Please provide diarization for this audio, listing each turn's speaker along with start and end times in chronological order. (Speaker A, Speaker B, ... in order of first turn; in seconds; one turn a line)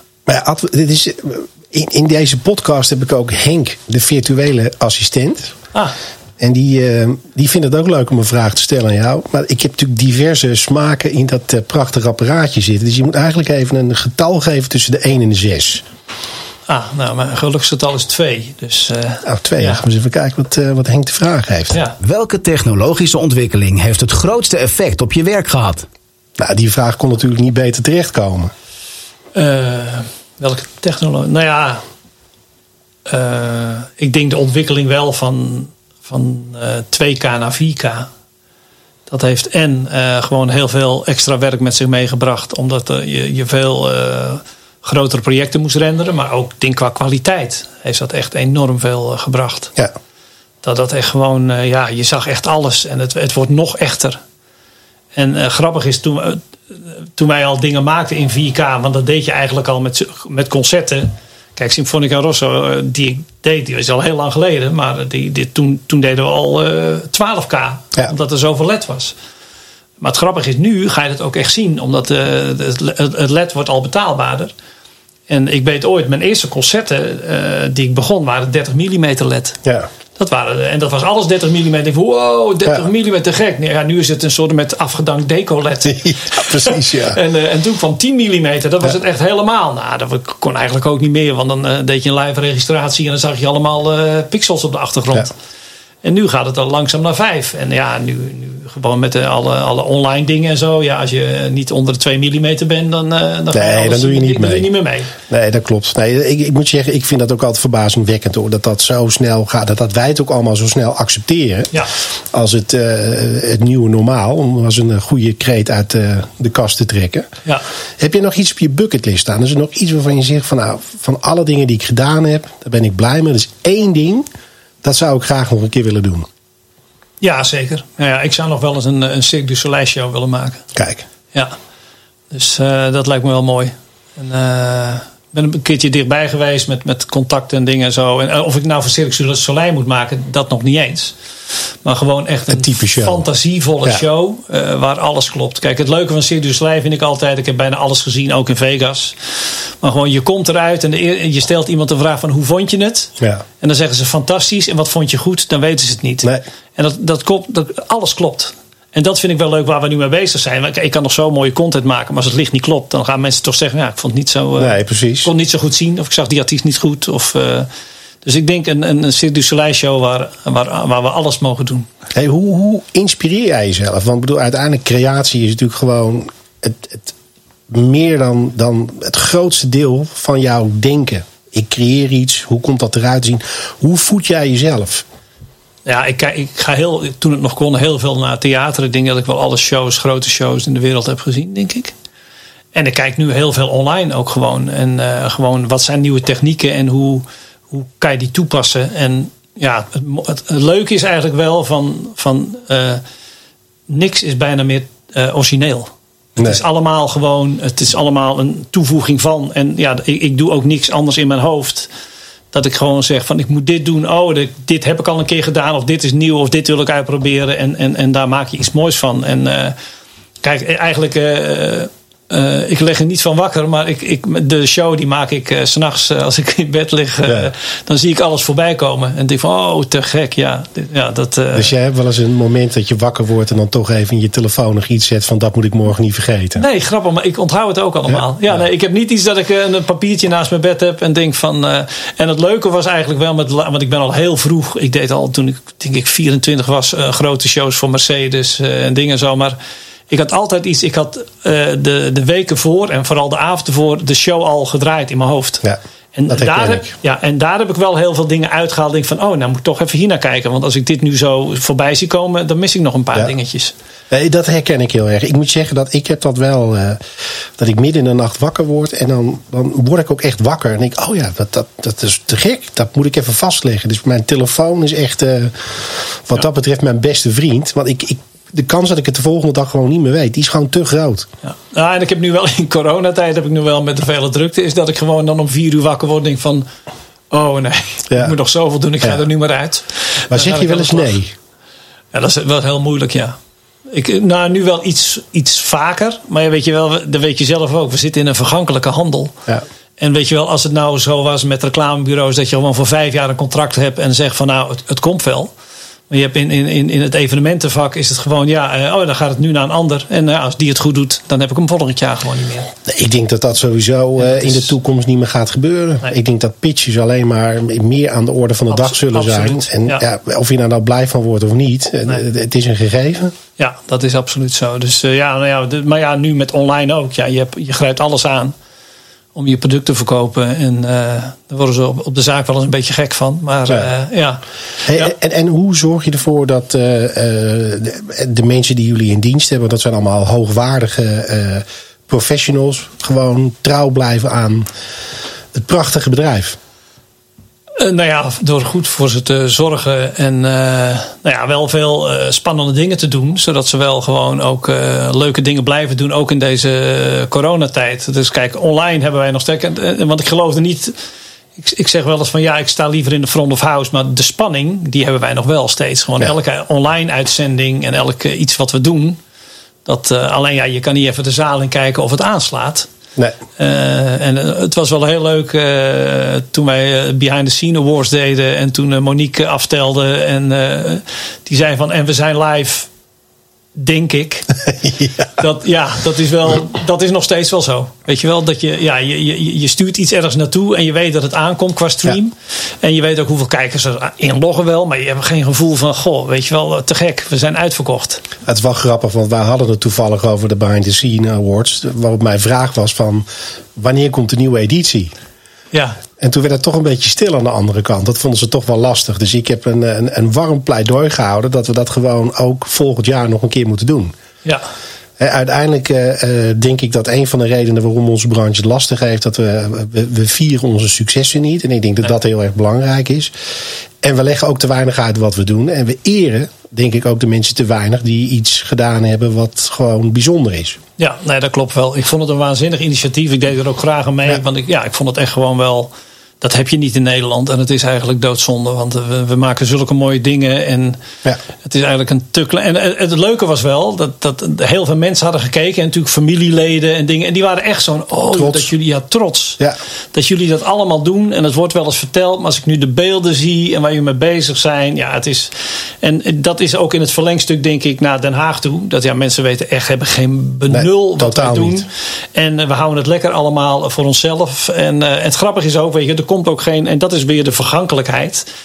Speaker A: 0.2-5.5
Speaker A: 6.4-15.8
Speaker B: 16.7-19.8
Speaker A: 19.2-21.8
Speaker B: 21.7-22.0
Speaker C: 22.0-25.9
Speaker A: 26.4-28.5
Speaker B: 29.3-31.8
Speaker B: 33.1-38.1
Speaker B: 39.1-49.7
Speaker B: 50.6-54.2
Speaker B: 55.1-69.2
Speaker B: 70.0-74.5
Speaker B: 75.3-79.6
Speaker B: 80.2-95.3
Speaker A: 85.8-87.2
Speaker B: 96.0-105.1
Speaker A: 103.5-104.7
Speaker A: 105.2-111.7
Speaker A: 112.3-117.3
Speaker A: 118.0-124.3
Speaker A: 124.8-126.3
Speaker B: 127.2-130.6
Speaker A: 130.7-131.0
Speaker B: 132.3-141.2
Speaker B: 141.8-167.7
Speaker A: 142.5-143.2
Speaker A: 164.6-165.3
Speaker B: 168.2-171.9
Speaker A: 172.1-177.1
Speaker A: 177.7-185.0
Speaker B: 185.8-191.9
Speaker B: 192.7-203.0
Speaker B: 203.9-211.9
Speaker B: 212.5-219.8
Speaker B: 220.4-231.7
Speaker A: 231.5-236.6
Speaker B: 236.6-249.6
Speaker B: 250.1-255.6
Speaker A: 255.6-256.9
Speaker B: 256.1-263.7
Speaker A: 264.1-267.0
Speaker A: 267.6-281.3
Speaker B: 281.4-286.7
Speaker B: 287.3-291.1
Speaker A: 290.3-291.3
Speaker B: 292.1-293.4
Speaker B: 293.9-299.3
Speaker B: 300.0-305.5
Speaker B: 306.1-312.7
Speaker A: 312.8-323.3
Speaker B: 314.2-314.7
Speaker B: 318.7-320.0
Speaker B: 323.6-328.5
Speaker B: 329.3-335.1
Speaker A: 334.9-344.7
Speaker A: 345.5-346.6
Speaker B: 347.8-360.9
Speaker B: 361.6-369.2
Speaker B: 369.8-372.9
Speaker B: 373.6-382.9
Speaker B: 383.7-384.5
Speaker A: 384.7-385.3
Speaker B: 385.4-398.2
Speaker A: 398.4-405.1
Speaker B: 405.7-406.0
Speaker A: 406.2-414.1
Speaker A: 415.2-423.3
Speaker A: 424.0-430.8
Speaker B: 431.0-441.0
Speaker B: 441.6-449.6
Speaker A: 448.3-448.7
Speaker B: 450.1-468.4
Speaker A: 460.7-461.9